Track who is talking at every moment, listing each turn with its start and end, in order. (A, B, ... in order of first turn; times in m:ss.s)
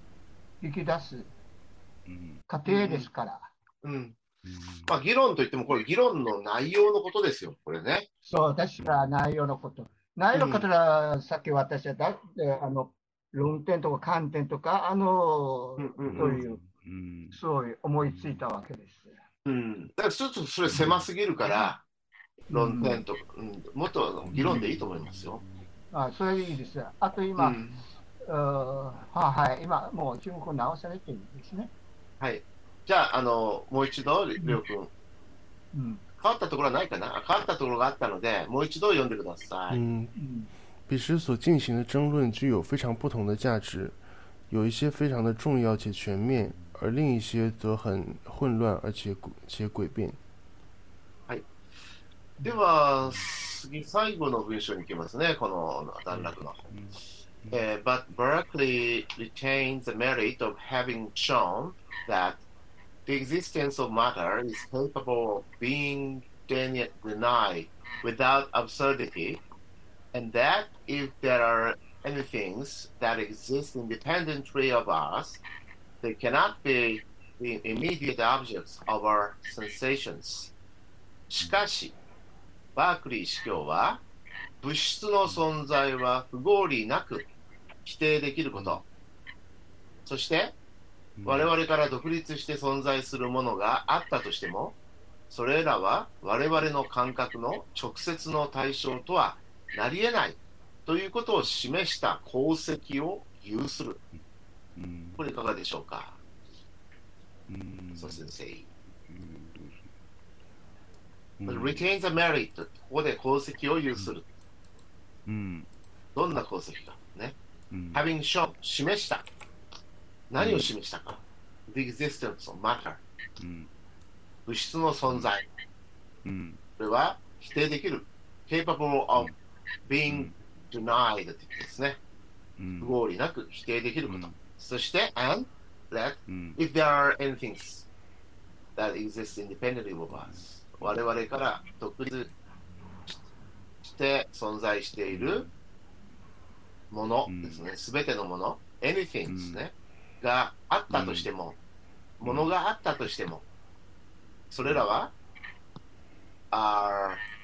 0:00.6-0:01.3 A
0:02.1-0:02.4 B
0:02.5-0:03.5 A
0:02.7-0:03.1 C
0:03.8-0:04.2 C
0:04.4-0:04.9 B
0:04.9-0:08.1 C
0:08.2-0:16.6 A
0:08.8-0:09.1 B
0:10.3-0:10.6 C
0:15.8-0:16.4 C
0:16.1-0:17.4 B
0:17.3-0:19.2 A
0:18.0-0:18.4 B
0:19.5-0:21.8 C
0:20.7-0:21.1 B
0:22.5-0:23.0 A
0:22.5-0:25.4 C
0:24.2-0:25.7 B
0:25.9-0:27.6 A
0:27.4-0:27.8 C
0:28.3-0:31.7 A
0:32.2-0:34.9 C
0:35.7-0:36.0 A
0:36.2-0:39.8 C
0:39.7-0:40.1 D
0:40.2-0:40.5 A
0:40.9-0:44.0 D
0:44.5-0:50.2 D
0:46.5-0:46.7 B
0:52.4-0:56.6 C
0:53.0-0:53.3 B
0:56.1-0:57.6 B
0:57.5-1:02.4 C
1:03.1-1:09.4 C
1:10.1-1:15.4 C
1:16.0-1:20.5 C
1:21.3-1:22.0 C
1:22.8-1:24.0 C
1:24.6-1:27.3 C
1:27.9-1:28.8 C
1:28.5-1:28.8 B
1:30.1-1:30.5 C
1:31.2-1:31.5 B
1:31.3-1:34.8 C
1:35.3-1:44.0 C
1:44.8-1:45.2 B
1:45.2-1:46.2 C
1:47.5-1:48.3 B
1:48.0-1:48.7 C
1:49.1-1:49.9 B
1:51.4-1:51.9 B
1:51.5-1:54.2 C
1:55.3-1:55.7 B
1:56.2-1:57.4 C
1:57.7-1:58.0 B
1:57.9-1:59.2 C
2:00.3-2:03.0 C
2:00.4-2:00.7 B
2:03.4-2:03.7 B
2:04.5-2:05.4 C
2:06.2-2:06.6 B
2:06.8-2:09.3 C
2:09.9-2:12.0 C
2:10.1-2:10.4 B
2:12.6-2:13.0 B
2:12.8-2:17.9 C
2:14.1-2:14.4 B
2:16.3-2:16.6 B
2:18.8-2:22.3 C
2:20.1-2:21.0 B
2:23.8-2:25.4 C
2:25.1-2:25.5 B
2:26.9-2:31.6 C
2:27.3-2:27.7 B
2:29.3-2:29.6 B
2:30.9-2:31.3 B
2:32.2-2:33.4 C
2:32.2-2:32.5 B
2:34.5-2:35.1 C
2:34.6-2:35.0 B
2:36.5-2:37.2 C